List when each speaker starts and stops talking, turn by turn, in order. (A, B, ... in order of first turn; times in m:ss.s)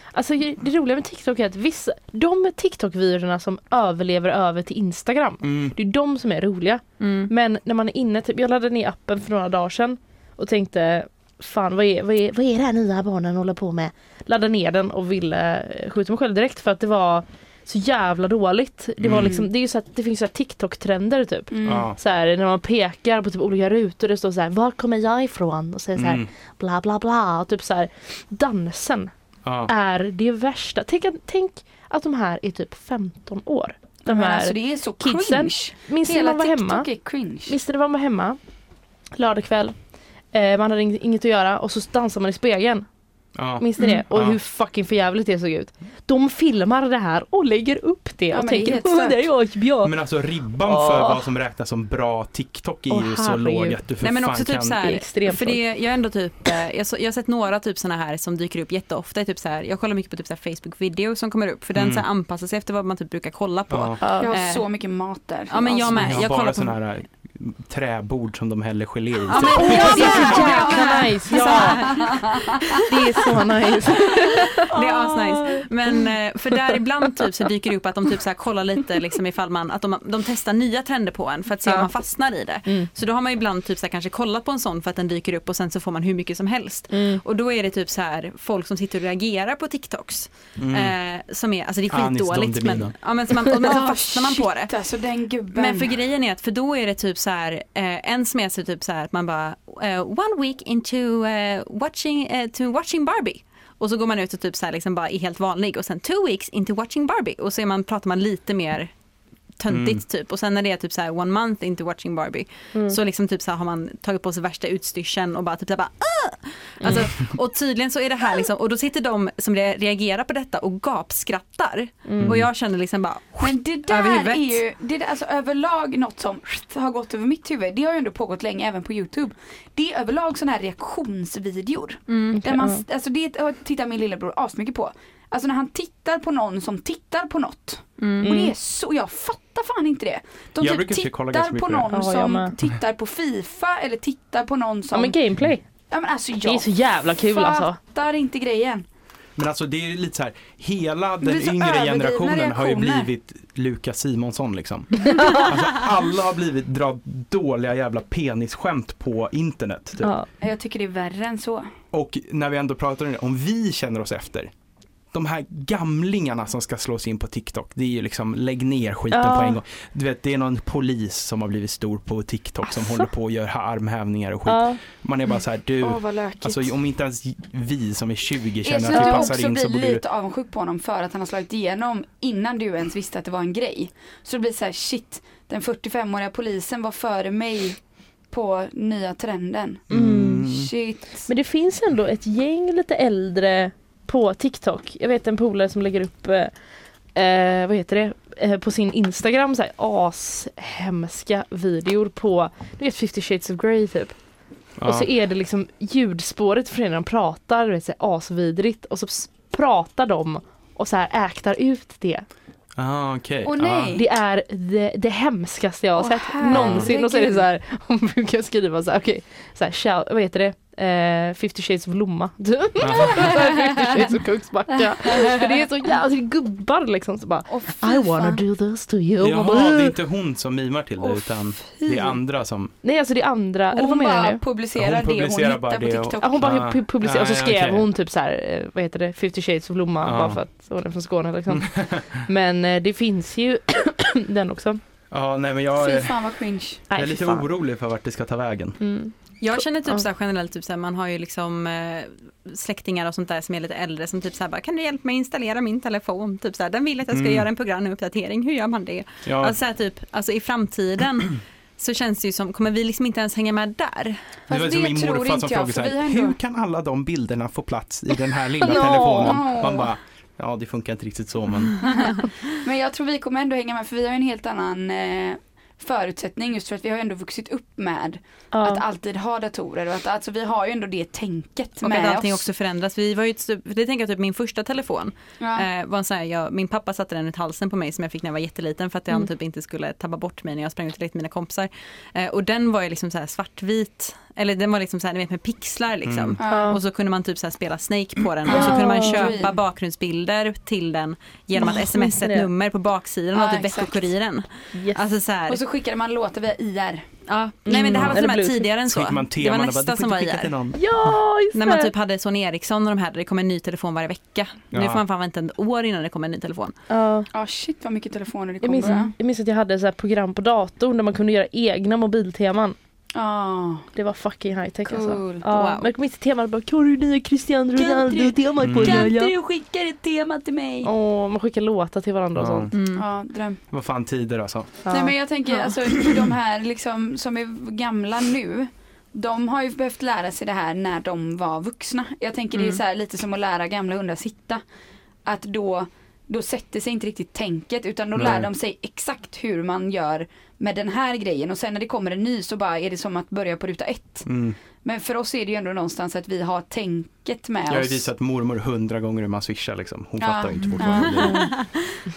0:00.1-0:29.1 A
0:05.4-0:05.8 B
0:07.0-0:07.3 C
0:19.0-0:19.4 B
0:21.5-0:21.9 D
0:21.7-0:22.0 B
0:26.0-0:26.3 B
0:29.4-0:29.7 B
0:29.7-0:36.9 A
0:34.0-0:37.6 D
0:37.5-0:38.4 A
0:39.1-0:39.8 A
0:40.3-0:42.9 A
0:43.4-0:44.4 B
0:43.6-0:50.0 A
0:48.3-0:49.3 D
0:49.8-0:54.8 B
0:50.6-0:51.2 A
0:52.9-0:53.8 A
0:54.0-1:04.7 C
0:54.8-0:55.6 A
1:01.8-1:02.0 B
1:03.7-1:04.0 B
1:04.0-1:04.4 A
1:04.2-1:06.3 D
1:05.5-1:06.8 C
1:06.0-1:10.5 B
1:09.3-1:12.9 C
1:09.4-1:12.8 D
1:09.5-1:12.1 A
1:12.8-1:15.7 A
1:14.2-1:34.7 C
1:26.9-1:27.2 A
1:30.6-1:30.9 B
1:31.9-1:33.0 B
1:33.6-1:36.0 D
1:35.5-1:48.9 C
1:49.6-2:04.6 C
1:49.7-1:50.0 B
2:02.1-2:02.4 A
2:02.2-2:02.5 B
2:03.4-2:25.2 D
2:12.1-2:12.4 C
2:12.4-2:12.8 A
2:18.0-2:18.3 C
2:18.2-2:18.5 A
2:20.6-2:21.9 B
2:21.9-2:22.5 A
2:24.9-2:25.6 A
2:25.9-2:28.9 D
2:26.4-2:27.8 A
2:29.4-2:40.1 B
2:31.2-2:33.1 D
2:35.2-2:35.4 A
2:40.0-2:40.3 A
2:40.4-2:41.7 D
2:41.9-2:44.5 B
2:45.1-3:00.0 B
2:49.1-2:49.6 A
2:54.5-2:54.8 A
2:55.8-2:56.7 D
2:58.6-3:07.8 D
2:58.9-2:59.3 A
3:08.3-3:09.8 D
3:09.9-3:10.7 B
3:09.9-3:10.5 A
3:10.4-3:11.3 D
3:11.3-3:16.5 A
3:17.1-3:24.2 A
3:24.8-3:25.1 B
3:24.8-3:32.3 A
3:32.8-3:34.0 B
3:33.4-3:34.0 D
3:34.0-3:50.0 A
3:36.0-3:37.4 D
3:36.5-3:36.9 B
3:42.8-3:43.4 B
3:43.2-3:43.8 D
3:44.9-3:45.6 D
3:47.5-3:48.4 D
3:49.2-3:52.7 B
3:51.0-3:52.2 D
3:52.8-3:54.4 A
3:53.7-3:56.5 D
3:54.8-3:57.9 B
3:56.2-4:04.8 A
4:00.0-4:00.4 B
4:01.5-4:02.2 B
4:05.1-4:06.2 B
4:05.8-4:06.9 D
4:06.9-4:07.5 A
4:06.9-4:08.8 B
4:08.8-4:10.0 A
4:09.4-4:24.2 C
4:17.1-4:17.5 B
4:19.2-4:19.6 B
4:24.5-4:26.4 D
4:24.5-4:31.8 B
4:28.6-4:29.4 A
4:28.7-4:29.9 D
4:31.8-4:42.5 D
4:38.5-4:38.8 A
4:41.8-5:05.6 C
4:45.4-4:45.7 D
4:56.0-4:56.4 B
4:56.4-4:56.7 D
4:56.5-4:56.8 A
4:58.5-4:59.6 D
4:58.5-4:59.4 A
5:01.6-5:02.5 A
5:03.3-5:04.1 D
5:04.7-5:05.0 A
5:05.5-5:07.1 D
5:07.3-5:10.6 C
5:07.7-5:08.7 A
5:07.9-5:08.2 B
5:08.9-5:10.8 B
5:10.7-5:11.9 A
5:11.5-5:16.8 C
5:14.7-5:15.0 B
5:16.9-5:17.3 A
5:17.3-5:19.1 D
5:18.6-5:22.8 A
5:23.1-5:23.9 D
5:24.0-5:29.3 A
5:24.9-5:25.5 D
5:25.5-5:25.9 C
5:27.8-5:30.9 D
5:28.6-5:29.1 B
5:30.8-5:32.7 A
5:32.4-5:32.7 B
5:32.7-5:33.0 C
5:32.9-5:33.6 D
5:33.7-5:34.8 B
5:34.8-5:35.7 A
5:34.9-5:44.6 D
5:42.5-5:42.8 C
5:45.2-5:54.3 D
5:48.1-5:48.5 B
5:54.3-5:54.6 B
5:54.8-5:58.1 D
5:57.7-6:01.5 B
6:00.2-6:01.4 D
6:01.2-6:01.5 A
6:01.2-6:02.0 C